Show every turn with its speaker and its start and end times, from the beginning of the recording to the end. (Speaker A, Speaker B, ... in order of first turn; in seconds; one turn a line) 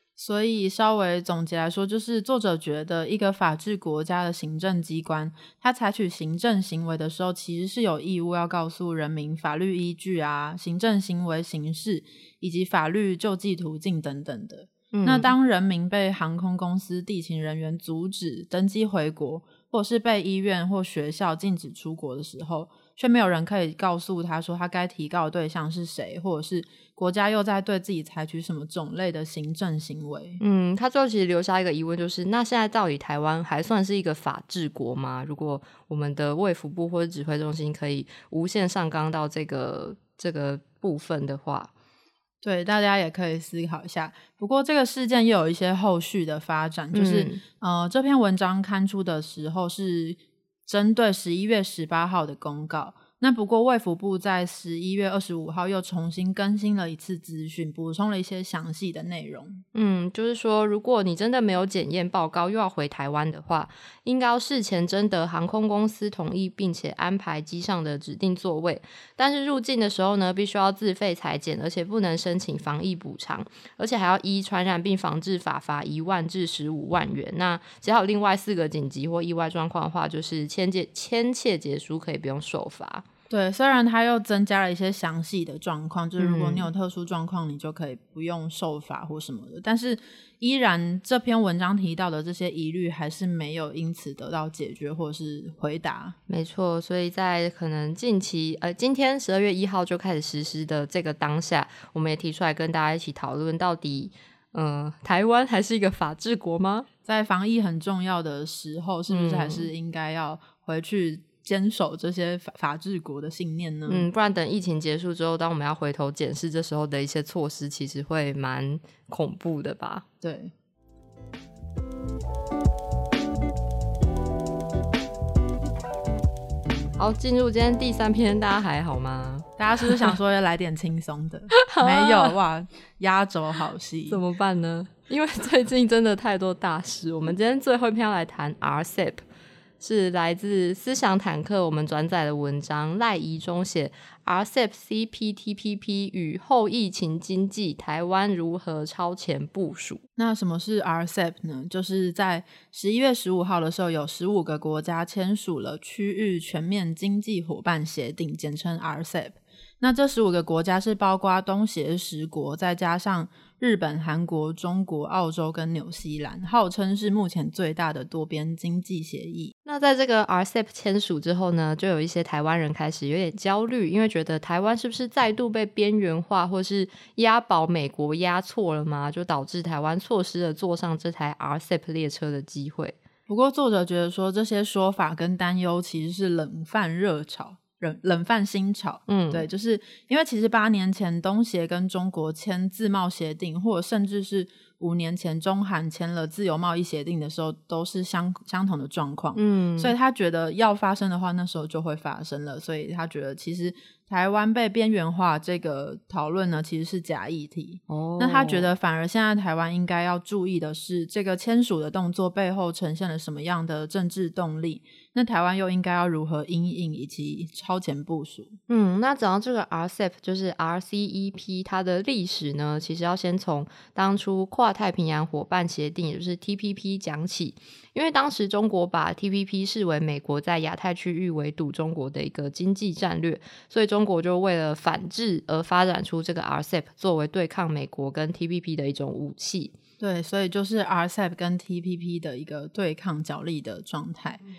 Speaker A: 0.2-30.4
Speaker B: 14.9-15.3
Speaker B: 30.4-41.7
Speaker A: 42.4-59.6
Speaker B: 46.9-47.4
Speaker B: 59.7-83.0
Speaker A: 83.3-96.1
Speaker B: 86.2-86.7
Speaker B: 96.3-106.9
Speaker A: 107.0-114.1
Speaker B: 109.1-109.7
Speaker B: 113.9-120.0
Speaker A: 120.2-120.5
Speaker B: 127.0-130.1
Speaker A: 129.6-134.2
Speaker B: 131.5-132.3
Speaker B: 134.1-139.2
Speaker B: 139.8-150.0
Speaker A: 150.2-169.5
Speaker B: 169.6-182.9
Speaker A: 183.3-218.6
Speaker B: 189.1-189.4
Speaker B: 199.3-199.9
Speaker B: 207.9-208.7
Speaker B: 218.7-239.7
Speaker A: 240.0-244.4